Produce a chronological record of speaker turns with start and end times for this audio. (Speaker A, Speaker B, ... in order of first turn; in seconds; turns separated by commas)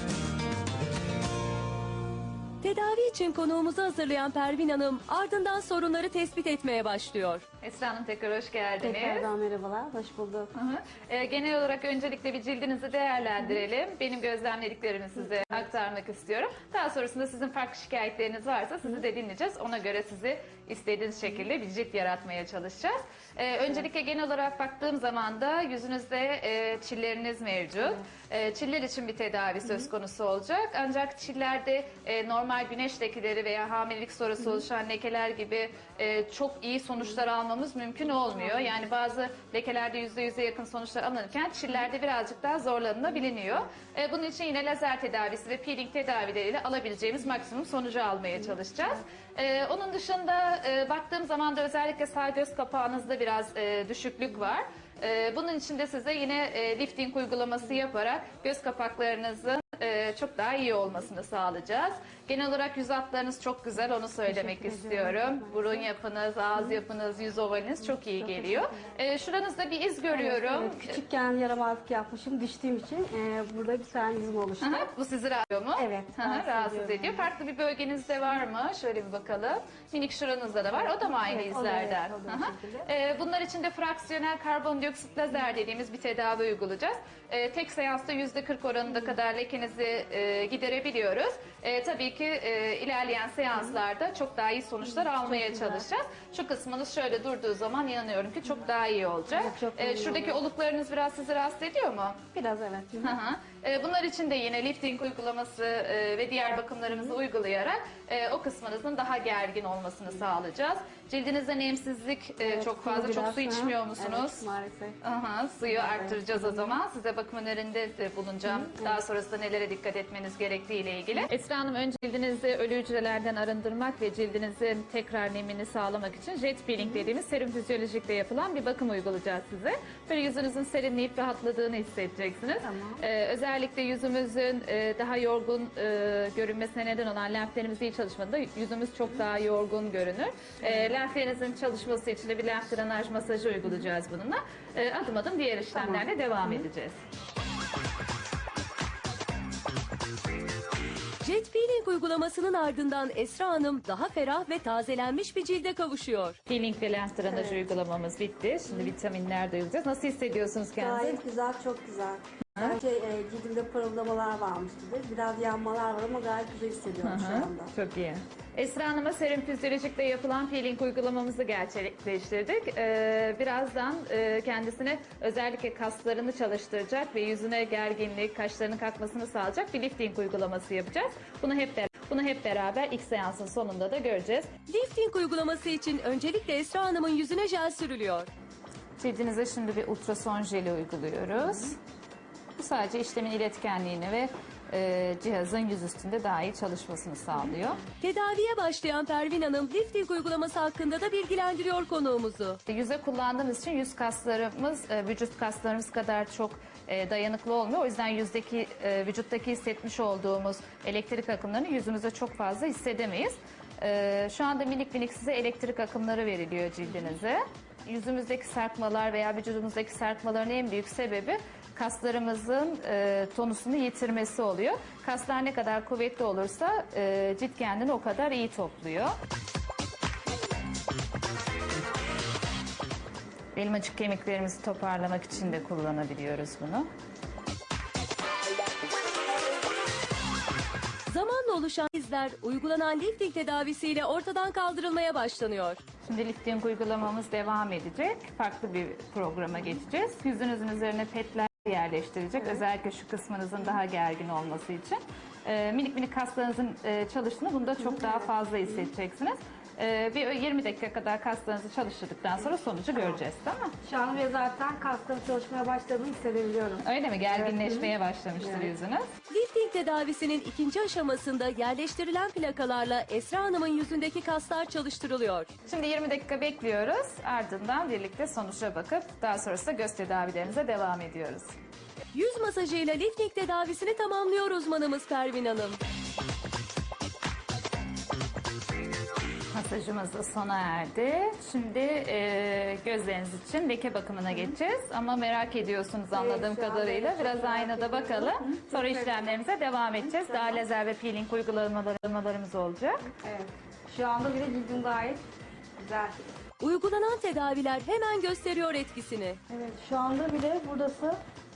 Speaker A: 2.6-7.4, Speaker B: 7.6-9.3, Speaker C: 8.8-10.5, Speaker B: 10.5-71.0, Speaker C: 64.3-65.9, Speaker C: 67.8-68.9, Speaker C: 70.1-74.9, Speaker B: 74.6-102.3, Speaker C: 75.7-77.3, Speaker C: 80.7-82.9, Speaker C: 94.8-95.8, Speaker C: 99.3-100.4, Speaker C: 102.3-103.2, Speaker B: 103.0-114.4, Speaker C: 112.4-115.0, Speaker B: 115.0-147.0, Speaker C: 115.7-116.8, Speaker C: 118.4-119.0, Speaker C: 126.8-127.1, Speaker C: 132.6-133.0, Speaker C: 145.7-146.6, Speaker A: 151.2-156.4, Speaker B: 156.5-161.2, Speaker C: 157.2-157.6, Speaker C: 160.8-167.7, Speaker B: 162.6-162.8, Speaker B: 167.0-184.5, Speaker A: 184.7-188.3, Speaker B: 189.0-191.8, Speaker B: 192.6-197.8, Speaker A: 198.0-202.6, Speaker B: 202.7-229.1, Speaker B: 233.5-236.9, Speaker A: 241.1-245.8, Speaker B: 246.0-263.7, Speaker C: 257.8-258.9, Speaker C: 263.8-268.7, Speaker B: 266.8-269.1, Speaker A: 269.3-275.5, Speaker B: 275.6-281.5, Speaker A: 282.1-285.8, Speaker B: 289.5-303.0, Speaker C: 296.1-299.4, Speaker C: 300.0-300.6, Speaker C: 303.1-305.2, Speaker C: 305.8-306.2, Speaker A: 306.6-309.4, Speaker C: 309.5-311.2